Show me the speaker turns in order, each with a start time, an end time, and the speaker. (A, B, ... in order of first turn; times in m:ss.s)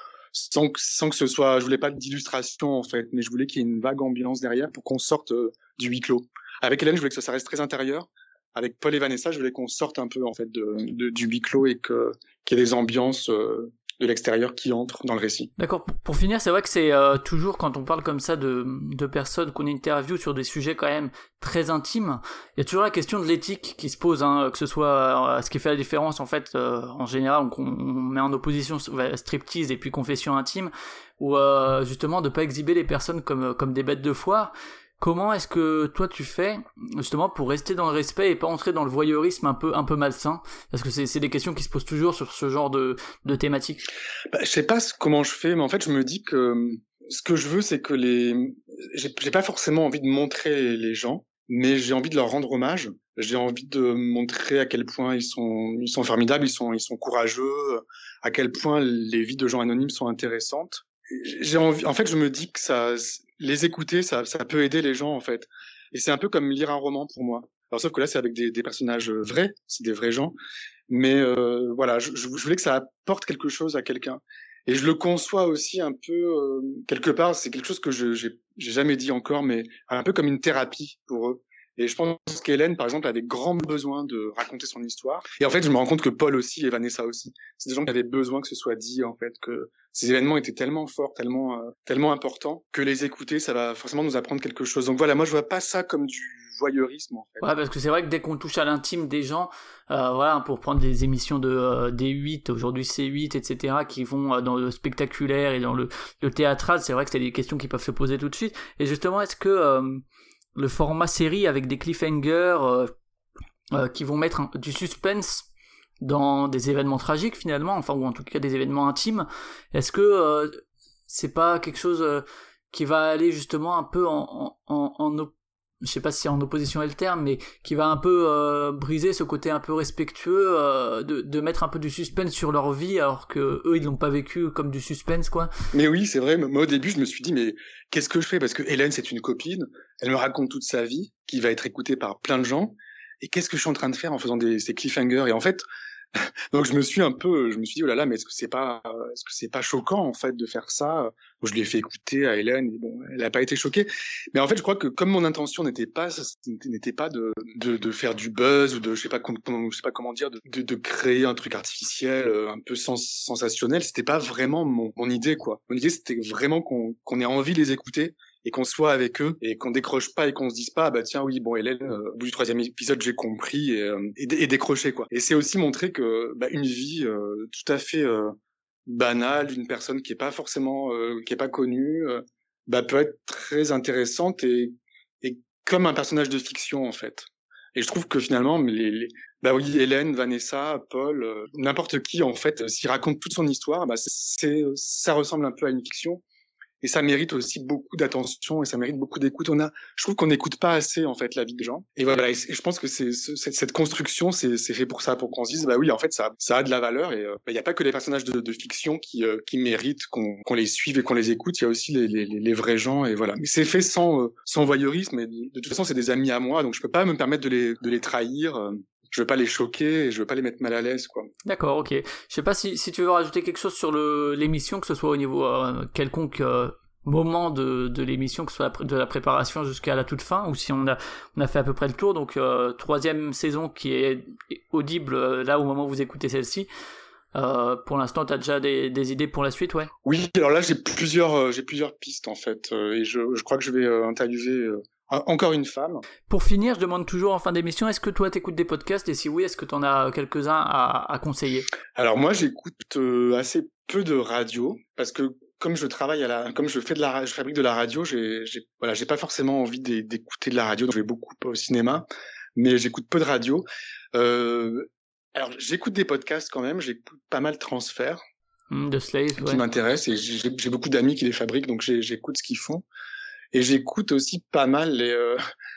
0:00.3-0:15.5 A
0:15.6-0:43.9 B
0:44.3-1:10.3 A
1:10.9-1:37.5 A
1:37.4-1:50.0 B
1:50.6-1:52.9 B
1:53.7-1:55.5 B
1:56.0-2:15.5 B
2:15.7-2:25.6 A
2:26.1-3:16.2 A
3:16.8-3:41.3 A
3:41.4-3:56.7 B
3:57.3-3:59.9 B
4:00.0-4:06.0 A
4:06.3-4:11.7 B
4:11.9-4:28.2 A
4:28.7-4:29.6 B
4:29.4-4:32.8 A
4:33.5-4:35.4 A